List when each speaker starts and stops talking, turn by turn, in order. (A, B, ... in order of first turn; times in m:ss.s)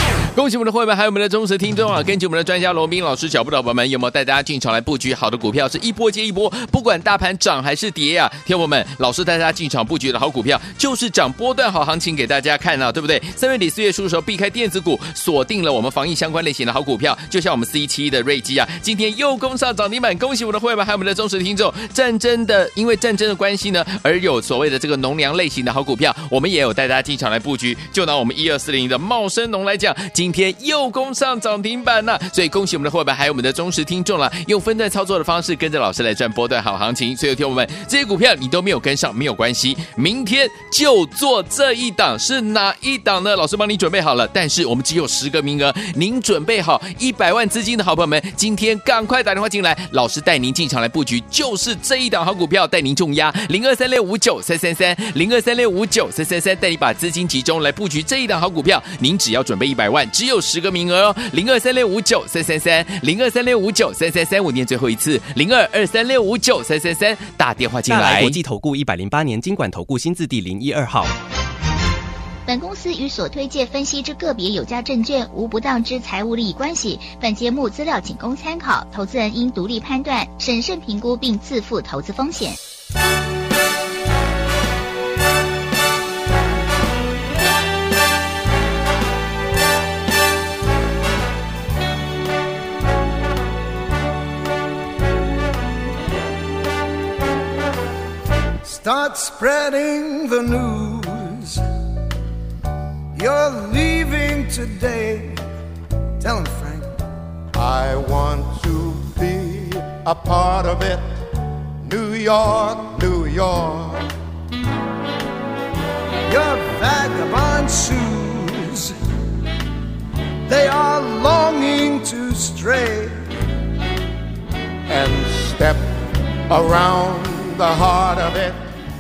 0:00.3-1:08.4 A
1:07.9-1:11.1 B
1:12.5-1:22.6 C
1:38.6-1:41.6 D
1:43.2-1:45.4 D
1:46.2-1:46.9 D
1:47.6-1:51.1 E
1:51.8-1:54.0 E
1:56.3-1:58.9 D
2:00.5-2:03.2 D
2:04.9-2:08.6 E